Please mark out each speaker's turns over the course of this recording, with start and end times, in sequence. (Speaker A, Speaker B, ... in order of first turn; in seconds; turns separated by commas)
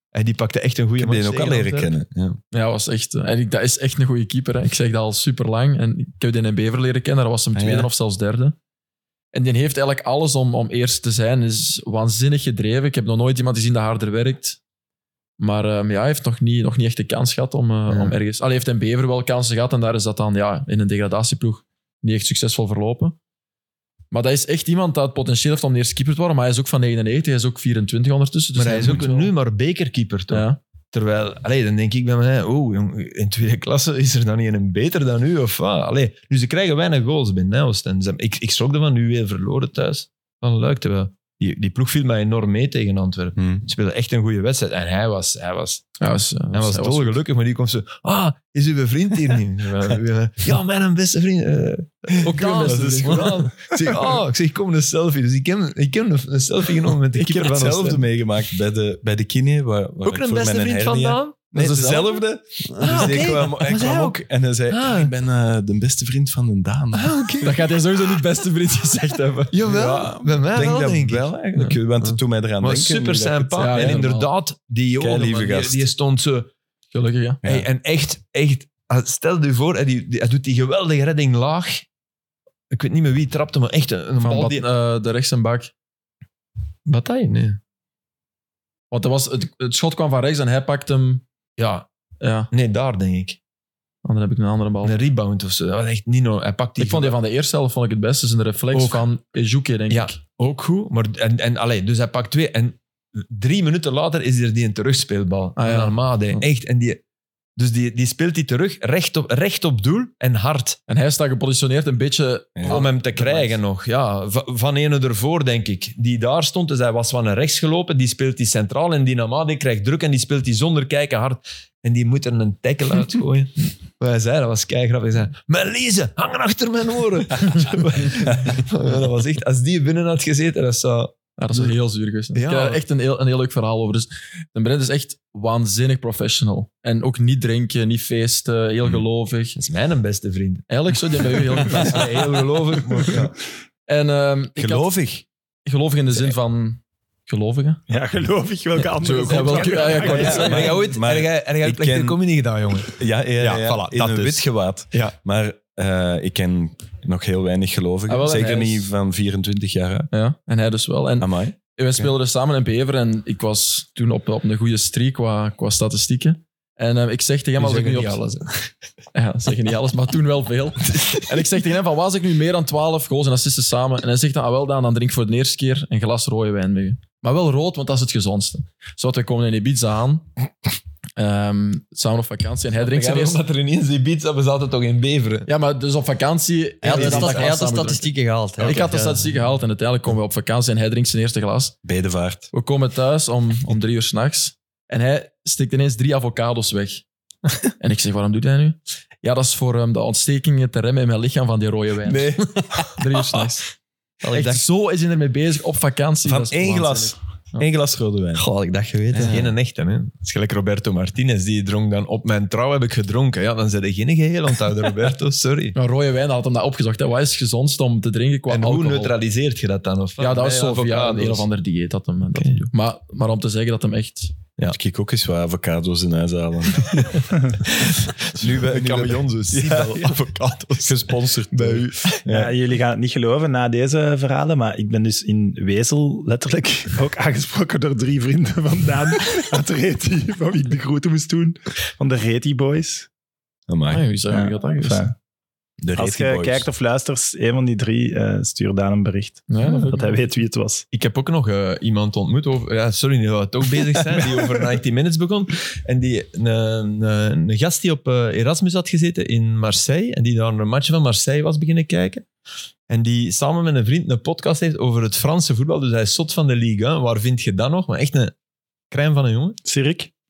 Speaker A: 0.1-1.9, Speaker B: 1.0-2.4, Speaker C: 2.5-8.6, Speaker B: 7.5-7.9, Speaker C: 9.3-14.6, Speaker C: 15.4-23.1, Speaker A: 17.9-18.1, Speaker C: 24.1-29.3, Speaker A: 28.6-45.9, Speaker C: 30.3-30.6, Speaker B: 43.4-43.6, Speaker C: 46.0-47.2, Speaker A: 46.5-58.1, Speaker C: 52.2-53.4, Speaker B: 57.1-67.3, Speaker A: 60.0-62.1, Speaker C: 61.6-62.0, Speaker D: 62.7-63.2, Speaker A: 62.8-65.1, Speaker A: 66.9-67.7, Speaker C: 67.4-69.5, Speaker A: 69.5-71.3, Speaker B: 69.7-74.0, Speaker A: 72.6-76.5, Speaker C: 73.6-74.3, Speaker B: 75.0-75.8, Speaker C: 76.9-77.4, Speaker A: 77.4-81.8, Speaker A: 82.7-84.7, Speaker C: 84.2-85.7, Speaker A: 86.9-87.6, Speaker C: 88.9-91.2, Speaker A: 91.6-91.8, Speaker C: 92.2-92.5, Speaker A: 92.5-93.4, Speaker C: 94.0-95.0, Speaker A: 94.8-97.2, Speaker C: 96.8-100.2, Speaker A: 98.7-99.0, Speaker A: 99.9-107.0, Speaker C: 105.6-106.4, Speaker A: 107.6-110.8, Speaker C: 110.9-113.5, Speaker B: 112.5-112.8, Speaker A: 112.7-131.7, Speaker C: 131.4-139.6, Speaker A: 132.3-132.8, Speaker A: 139.6-140.7, Speaker C: 140.7-142.1, Speaker A: 141.6-143.3, Speaker C: 143.9-144.9, Speaker B: 144.6-145.2, Speaker C: 145.7-147.8, Speaker E: 147.9-150.7, Speaker C: 149.0-150.7, Speaker A: 149.6-155.2, Speaker B: 150.1-152.2, Speaker B: 152.9-160.1, Speaker C: 158.1-158.9, Speaker C: 160.1-168.2, Speaker B: 161.2-162.1, Speaker A: 167.6-168.7, Speaker C: 169.1-180.3, Speaker C: 181.2-183.4, Speaker A: 182.8-185.5, Speaker C: 185.5-191.8, Speaker D: 186.8-189.3, Speaker A: 186.9-187.5, Speaker B: 191.8-192.5, Speaker C: 192.5-197.0, Speaker C: 197.8-203.7, Speaker B: 202.1-203.1, Speaker D: 204.2-204.6, Speaker C: 204.3-207.7, Speaker B: 206.2-208.4, Speaker D: 208.3-209.5, Speaker B: 209.1-209.4, Speaker A: 209.2-215.8, Speaker C: 215.7-219.1, Speaker A: 218.5-221.4, Speaker C: 220.2-224.3, Speaker A: 222.3-222.7, Speaker B: 224.7-227.2, Speaker A: 227.7-232.2, Speaker B: 228.4-230.2, Speaker B: 230.8-232.6, Speaker E: 232.2-243.1, Speaker B: 243.7-244.1, Speaker C: 243.9-245.1, Speaker E: 244.3-245.1, Speaker B: 245.8-246.7, Speaker E: 245.9-250.8, Speaker C: 249.5-250.1, Speaker A: 250.9-262.2, Speaker B: 254.1-254.6, Speaker A: 262.9-268.3, Speaker A: 268.9-269.6, Speaker E: 269.6-270.1